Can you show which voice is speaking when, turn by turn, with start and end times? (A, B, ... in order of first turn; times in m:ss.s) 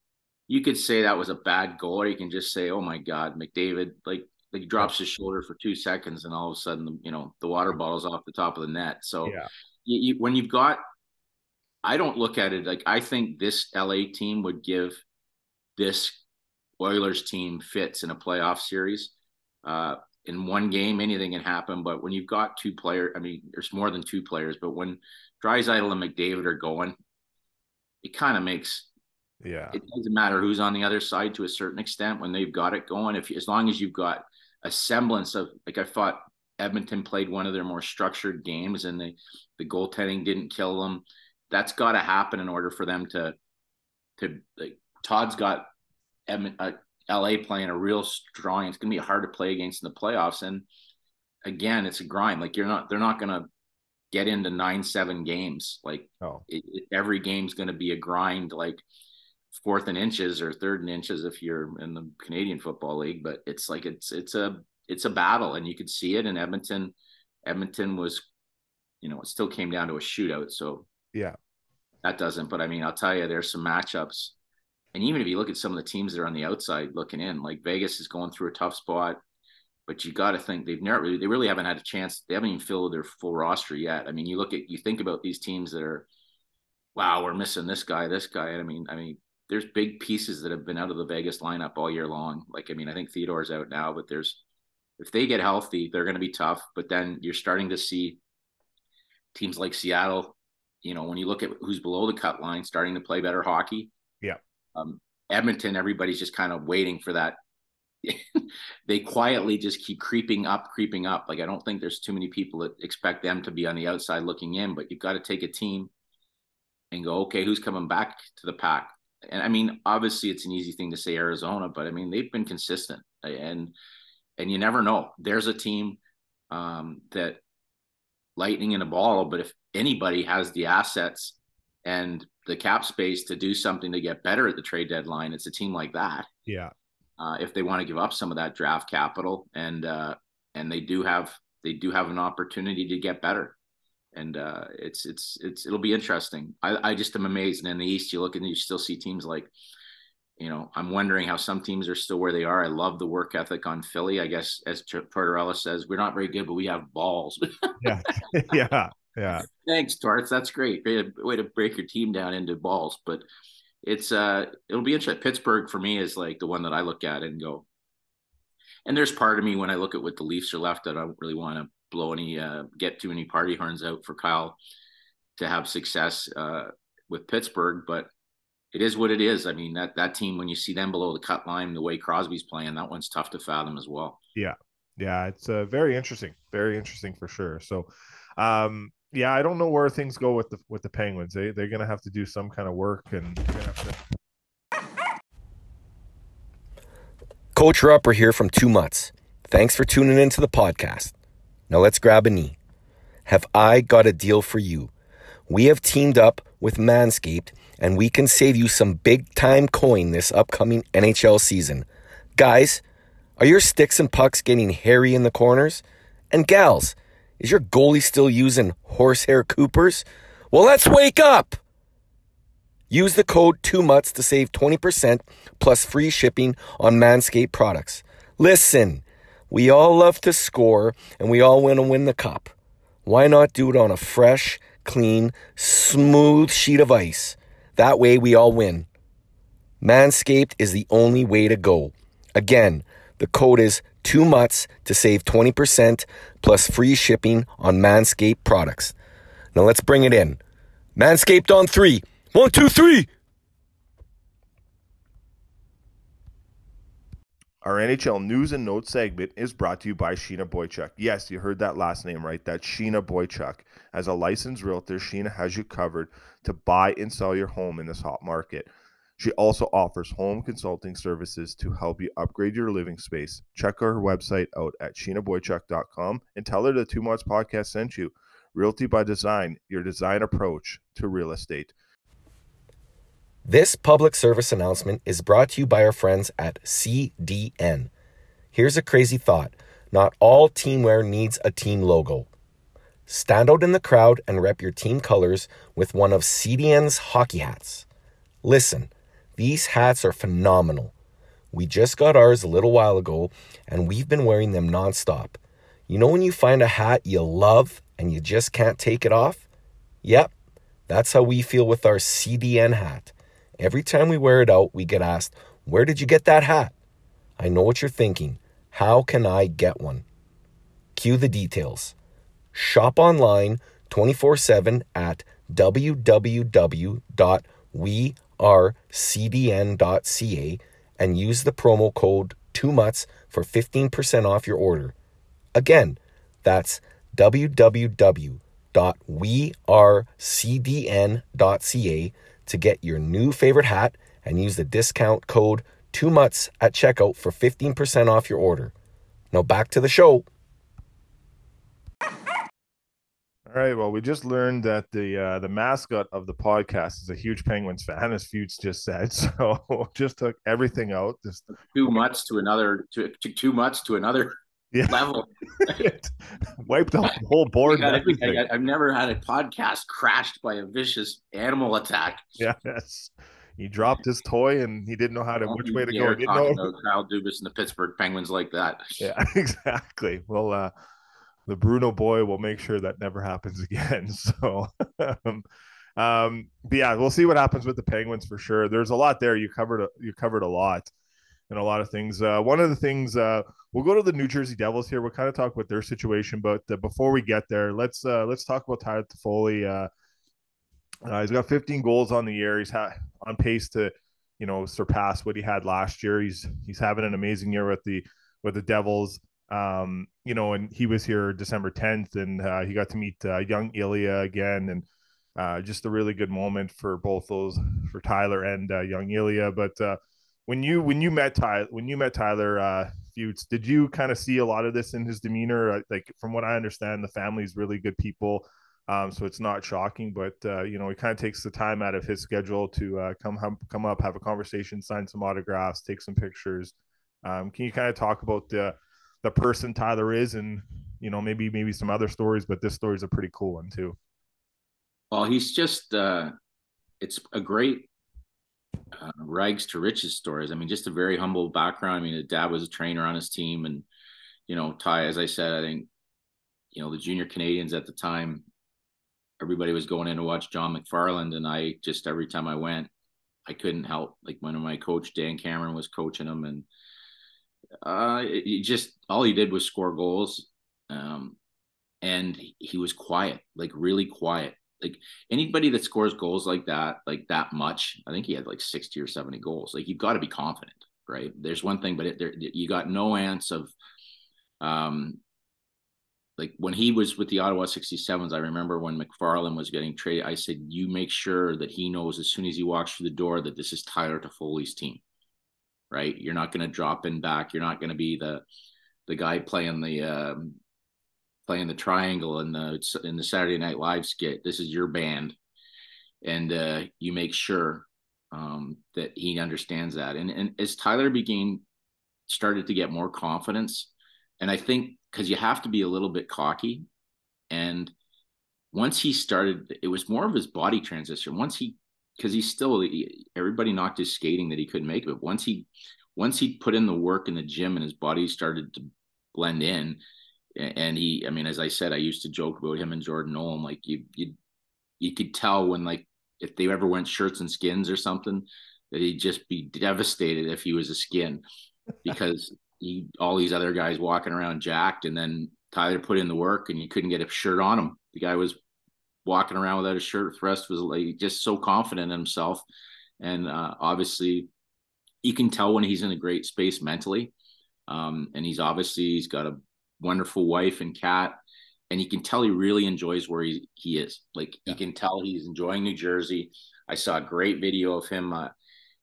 0:00.5-0:10.8 A
0:11.8-0:15.0 A
0:15.8-0:16.2 A
0:16.8-0:19.1 A
0:19.6-0:27.0 A
0:28.0-0:28.9 A
0:29.4-0:29.8 B
0:29.7-0:43.4 A
0:44.2-0:45.7 A
0:46.3-0:50.6 A
0:51.4-0:53.5 A
0:54.1-0:58.8 A
0:59.5-1:07.0 A
1:07.5-1:08.3 A
1:09.0-1:10.9 A
1:12.0-1:14.3 A
1:14.9-1:19.2 A
1:19.9-1:26.1 A
1:27.0-1:34.4 A
1:35.0-1:38.2 A
1:39.4-1:43.9 A
1:44.8-1:47.4 A
1:48.0-1:55.9 A
1:56.9-2:03.7 A
2:04.4-2:06.0 A
2:06.5-2:07.4 A
2:08.4-2:16.3 A
2:16.5-2:16.7 B
2:17.2-2:23.6 A
2:24.2-2:29.5 A
2:30.4-2:38.5 A
2:37.8-2:39.5 B
2:39.3-2:43.2 A
2:43.8-2:47.7 A
2:48.9-2:54.6 A
2:55.4-2:58.1 A
2:58.7-3:04.2 A
3:04.4-3:14.0 B
3:17.6-3:21.1 C
3:21.7-3:22.6 C
3:23.3-3:24.9 C
3:25.5-3:32.8 C
3:33.4-3:41.6 C
3:42.9-3:52.5 C
3:53.0-3:58.9 C
3:59.8-4:09.0 C
4:09.5-4:10.4 C
4:11.0-4:13.1 C
4:17.6-4:41.7 B
4:43.4-4:47.9 C
4:48.5-4:52.3 C
4:53.1-4:57.8 C
4:58.4-5:00.9 C
5:01.5-5:05.4 C
5:05.9-5:09.4 C
5:10.0-5:10.3 C
5:10.9-5:16.7 C
5:17.4-5:20.0 C
5:21.0-5:21.9 C
5:22.5-5:35.0 C
5:35.6-5:48.7 C
5:49.3-5:50.3 C
5:53.5-6:01.5 B
6:01.6-6:04.4 A
6:04.7-6:05.1 B
6:04.9-6:05.8 A
6:05.6-6:08.4 B
6:07.6-6:12.2 A
6:12.4-6:16.7 B
6:15.4-6:19.0 A
6:19.0-6:20.7 B
6:21.5-6:25.4 B
6:26.0-6:30.9 B
6:31.5-6:39.9 B
6:41.0-6:54.9 B
6:55.4-7:24.0 B
7:25.1-7:26.3 A
7:27.0-7:27.9 A
7:29.0-7:33.9 A
7:34.5-7:35.9 A
7:36.7-7:38.4 A
7:39.4-7:42.9 A
7:43.5-7:46.7 A
7:47.8-7:51.4 A
7:52.0-8:03.7 A
8:04.6-8:05.2 A
8:06.4-8:15.0 A
8:15.9-8:18.4 A
8:19.1-8:20.6 A
8:21.5-8:25.4 A
8:26.2-8:31.6 A
8:32.3-8:36.9 A
8:37.5-8:37.9 A
8:38.7-8:50.0 A
8:50.6-8:54.3 A
8:55.0-9:01.4 A
9:02.0-9:08.6 A
9:09.2-9:12.6 A
9:13.2-9:14.5 A
9:15.2-9:17.3 A
9:17.9-9:21.4 A
9:21.9-9:28.5 A